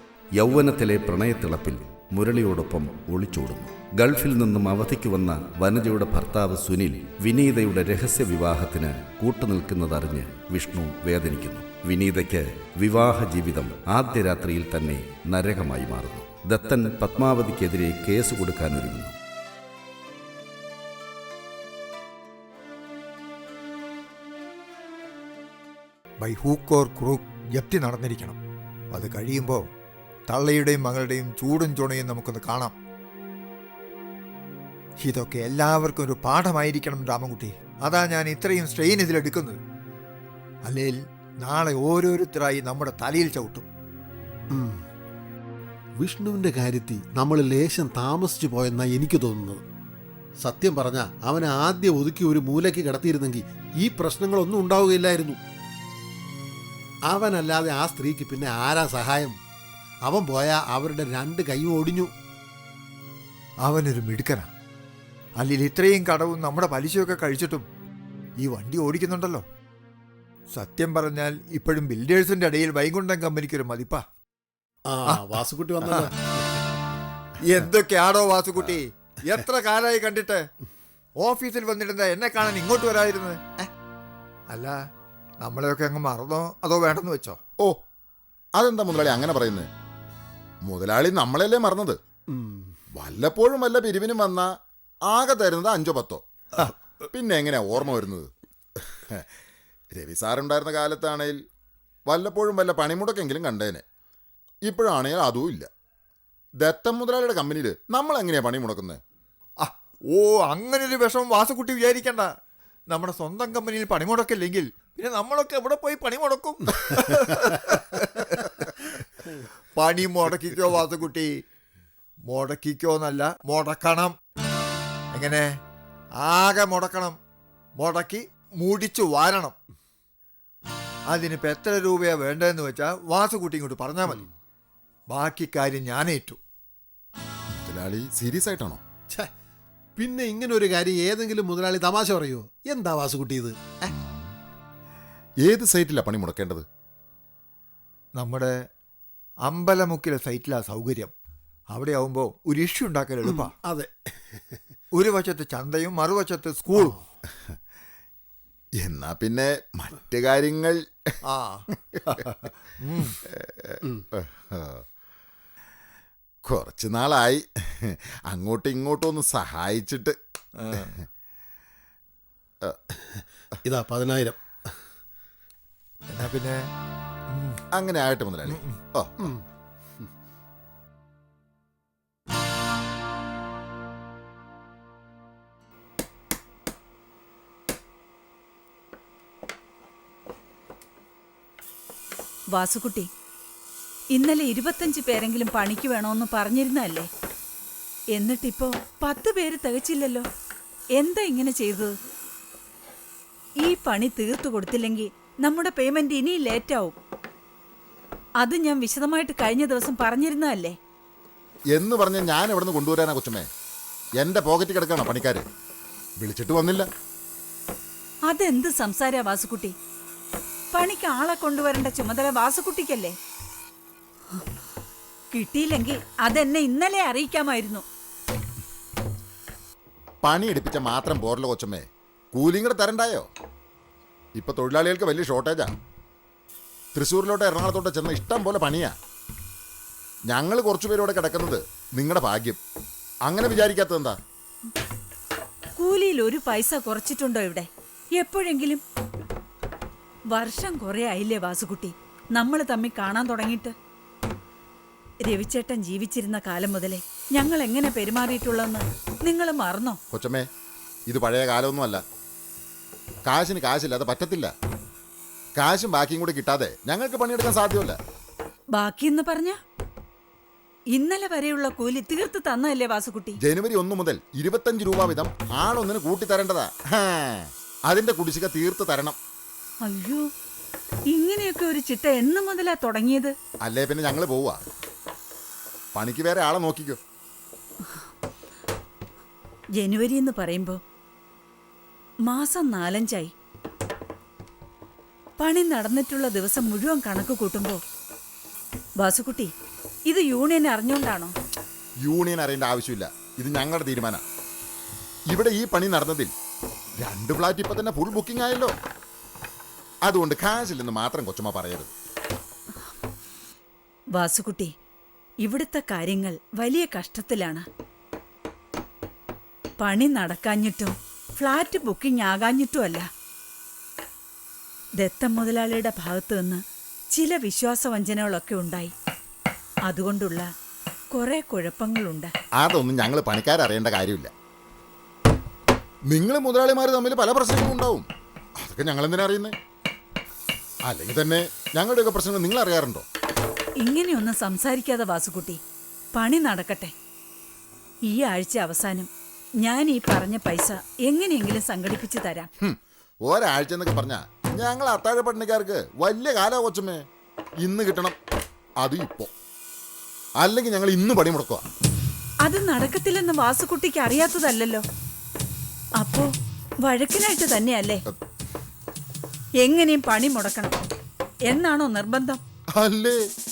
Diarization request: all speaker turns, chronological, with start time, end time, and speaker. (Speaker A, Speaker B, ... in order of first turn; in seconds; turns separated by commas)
Speaker A: 0.4-19.1, Speaker B: 26.2-28.4, Speaker B: 28.9-29.7, Speaker B: 30.3-32.7, Speaker B: 35.0-39.6, Speaker B: 40.6-43.6, Speaker C: 44.5-44.8, Speaker C: 46.0-49.6, Speaker C: 50.4-55.4, Speaker C: 57.1-59.4, Speaker C: 60.0-62.1, Speaker B: 63.6-64.5, Speaker B: 65.4-67.7, Speaker B: 68.4-69.4, Speaker B: 70.5-74.0, Speaker C: 74.9-76.1, Speaker B: 75.8-76.1, Speaker B: 77.4-80.4, Speaker B: 81.2-83.7, Speaker B: 84.5-84.8, Speaker B: 85.4-87.4, Speaker D: 88.6-89.7, Speaker D: 90.7-92.0, Speaker C: 92.3-92.7, Speaker D: 93.0-94.5, Speaker D: 95.1-96.2, Speaker D: 97.1-98.3, Speaker D: 99.9-101.4, Speaker D: 102.1-103.8, Speaker D: 104.7-105.7, Speaker D: 106.6-109.0, Speaker B: 109.6-112.3, Speaker B: 112.9-118.8, Speaker B: 119.8-121.4, Speaker B: 122.3-124.2, Speaker B: 125.1-125.5, Speaker B: 126.2-127.2, Speaker B: 127.8-129.5, Speaker B: 131.1-134.2, Speaker B: 135.1-136.4, Speaker D: 137.6-138.8, Speaker C: 140.0-143.6, Speaker D: 143.9-144.2, Speaker D: 145.4-146.7, Speaker B: 148.2-148.5, Speaker B: 149.4-151.1, Speaker B: 151.7-153.5, Speaker C: 153.2-154.6, Speaker B: 154.9-156.9, Speaker D: 158.8-160.8, Speaker B: 161.2-161.6, Speaker B: 162.8-163.2, Speaker D: 163.2-164.8, Speaker D: 166.5-170.2, Speaker B: 170.6-170.9, Speaker C: 173.2-174.4, Speaker B: 176.1-176.6, Speaker B: 177.3-177.6, Speaker D: 177.7-179.1, Speaker B: 178.5-178.7, Speaker E: 192.5-193.1, Speaker E: 194.1-197.1, Speaker E: 198.1-200.3, Speaker E: 200.9-201.9, Speaker E: 203.6-207.0, Speaker E: 208.4-210.8, Speaker D: 211.7-213.5, Speaker D: 214.2-215.4, Speaker D: 216.2-216.9, Speaker E: 218.2-219.7, Speaker E: 220.7-223.2, Speaker E: 225.3-227.8, Speaker D: 230.2-233.3, Speaker D: 234.3-235.8, Speaker D: 236.9-238.9, Speaker D: 240.3-242.6, Speaker D: 243.3-244.2, Speaker E: 245.8-248.8, Speaker E: 250.3-253.7, Speaker E: 255.2-260.0, Speaker D: 260.1-260.4, Speaker D: 261.1-262.0, Speaker D: 263.3-264.5, Speaker D: 265.6-268.0, Speaker E: 268.7-269.6, Speaker E: 270.9-273.4, Speaker D: 273.4-279.2, Speaker E: 279.8-280.2, Speaker E: 281.1-283.3, Speaker D: 283.6-284.6, Speaker D: 285.9-287.0, Speaker E: 289.8-290.8, Speaker E: 292.2-293.3, Speaker E: 295.4-297.8, Speaker E: 299.0-299.5, Speaker E: 300.1-301.3, Speaker D: 302.0-304.2, Speaker D: 305.3-306.3, Speaker D: 307.0-308.7, Speaker D: 310.0-311.9, Speaker E: 314.1-314.7, Speaker E: 315.4-317.6, Speaker E: 319.8-323.1, Speaker E: 325.0-328.9, Speaker E: 329.9-330.5, Speaker E: 331.1-332.3, Speaker D: 332.6-334.3, Speaker D: 336.1-338.1, Speaker D: 338.6-339.5, Speaker D: 340.9-343.0, Speaker E: 343.8-345.6, Speaker E: 346.1-346.9, Speaker E: 348.1-352.5, Speaker D: 352.6-357.0, Speaker D: 357.6-358.1, Speaker D: 358.8-359.3, Speaker D: 360.4-361.6, Speaker E: 362.4-364.9, Speaker E: 366.0-366.3, Speaker E: 366.8-368.0, Speaker E: 369.6-370.8, Speaker E: 371.5-372.4, Speaker D: 372.8-373.2